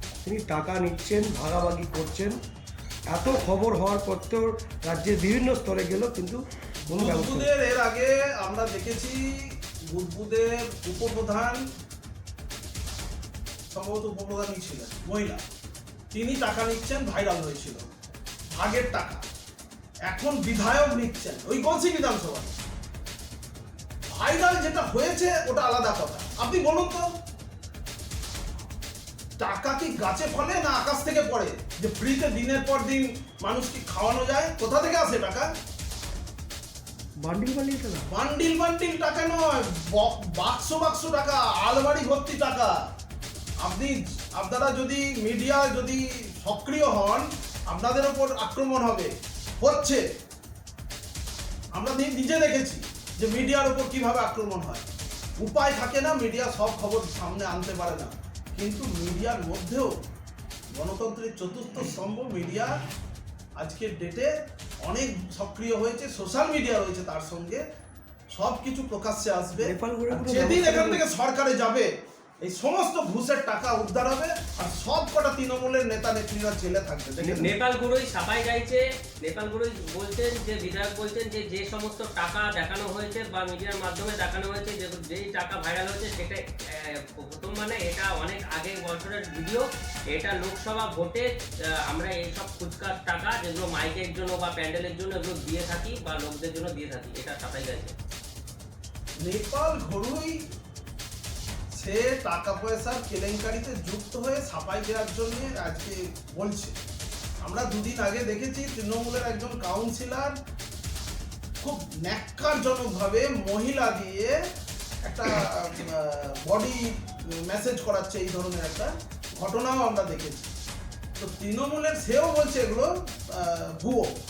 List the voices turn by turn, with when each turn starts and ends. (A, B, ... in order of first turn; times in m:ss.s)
0:00.2-0:02.4 A
0:03.1-0:07.5 A
0:06.9-0:11.6 B
0:13.7-0:15.4 B
0:16.1-0:17.8 B
0:18.5-0:19.2 B
0:20.1-0:22.6 B
0:24.1-0:27.0 B
0:29.4-0:35.5 B
0:37.2-0:38.1 A
0:38.1-0:42.7 B
0:43.6-0:50.0 B
0:51.8-0:54.8 B
0:55.4-0:59.9 B
1:00.7-1:02.7 B
1:03.6-1:04.3 B
1:04.8-1:07.6 B
1:08.3-1:11.9 B
1:09.6-1:11.0 A
1:12.4-1:17.5 B
1:17.2-1:31.3 C
1:17.2-1:17.5 A
1:31.8-1:37.9 C
1:39.2-1:40.4 B
1:41.7-1:46.7 B
1:47.4-1:50.3 B
1:51.6-1:54.4 B
1:55.0-2:00.5 B
2:01.2-2:04.1 B